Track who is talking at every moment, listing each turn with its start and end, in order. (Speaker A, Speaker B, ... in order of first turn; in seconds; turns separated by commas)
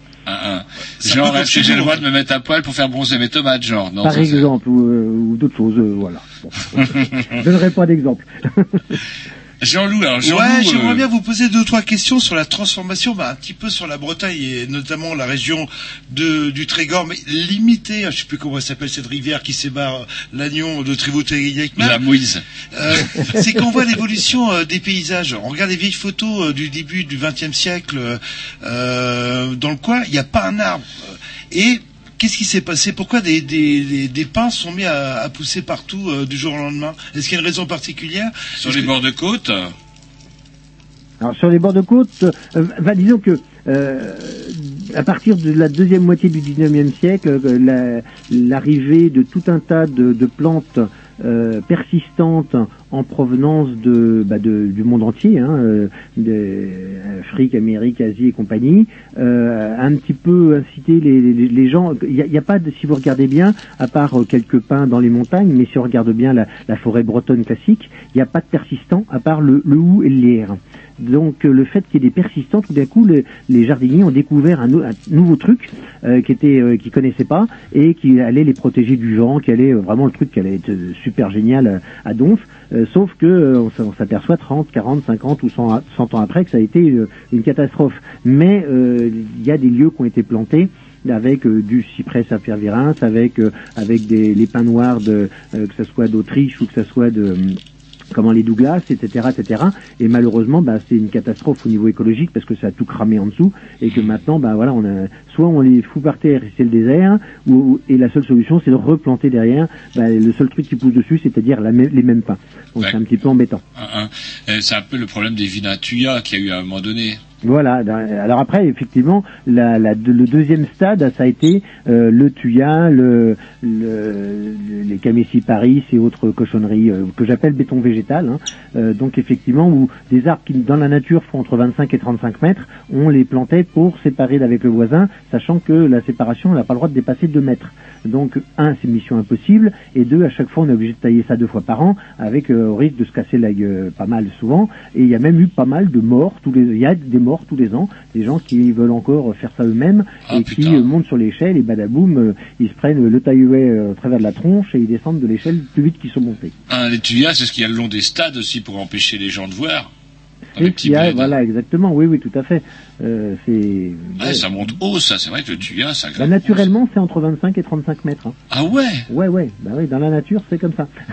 Speaker A: 0.3-4.5, Speaker B: 1.0-2.0, Speaker C: 4.0-9.0, Speaker A: 6.8-7.3, Speaker A: 9.6-11.0, Speaker B: 10.2-22.0, Speaker A: 21.8-22.4, Speaker B: 22.7-38.9, Speaker A: 22.9-23.2, Speaker A: 38.6-39.7, Speaker C: 41.2-97.6, Speaker C: 98.1-113.6, Speaker A: 103.8-104.1, Speaker A: 113.8-117.2, Speaker C: 117.4-156.5, Speaker A: 150.3-150.8, Speaker A: 156.7-159.9, Speaker C: 160.6-164.6, Speaker A: 160.6-161.4, Speaker A: 164.2-166.6, Speaker C: 166.2-168.3, Speaker A: 168.5-169.1, Speaker C: 169.1-170.9